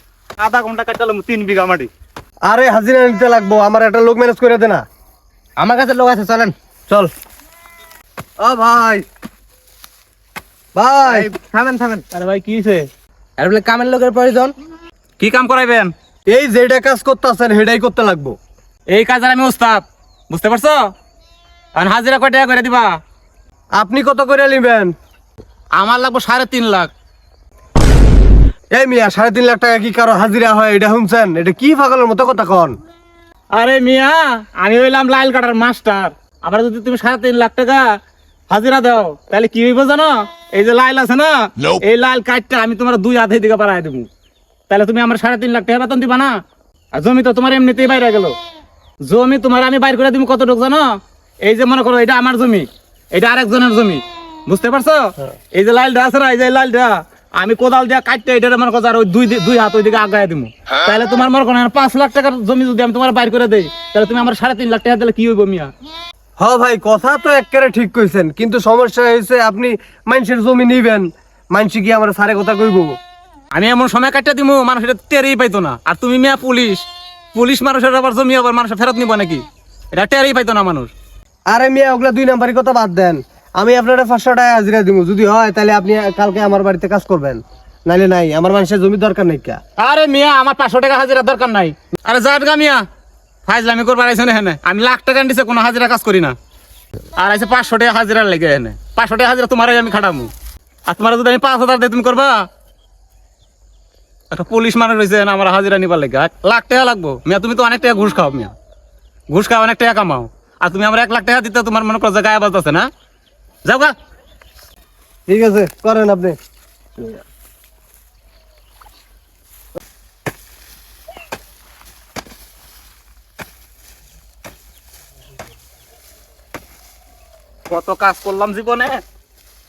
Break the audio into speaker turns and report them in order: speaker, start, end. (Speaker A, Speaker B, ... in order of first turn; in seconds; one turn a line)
Speaker A: 0.4-1.9
Speaker B: 2.4-4.8
Speaker C: 5.6-6.5
Speaker B: 8.4-9.1
Speaker B: 10.7-11.3
Speaker C: 11.1-12.1
Speaker A: 12.1-12.9
Speaker C: 13.4-14.5
Speaker A: 15.2-15.9
Speaker B: 16.3-18.4
Speaker A: 18.9-20.9
Speaker A: 21.8-23.0
Speaker B: 23.8-24.9
Speaker A: 25.8-26.9
Speaker B: 28.7-32.8
Speaker A: 33.5-37.9
Speaker A: 38.5-44.1
Speaker A: 44.7-46.4
Speaker A: 46.9-48.4
Speaker A: 49.0-65.7
Speaker B: 66.4-72.9
Speaker A: 73.5-80.9
Speaker B: 81.5-89.6
Speaker A: 89.8-92.8
Speaker A: 93.5-96.3
Speaker A: 97.2-100.3
Speaker A: 100.9-102.5
Speaker A: 104.3-108.5
Speaker A: 109.3-112.9
Speaker A: 113.7-113.9
Speaker B: 115.3-116.4
Speaker A: 127.7-129.0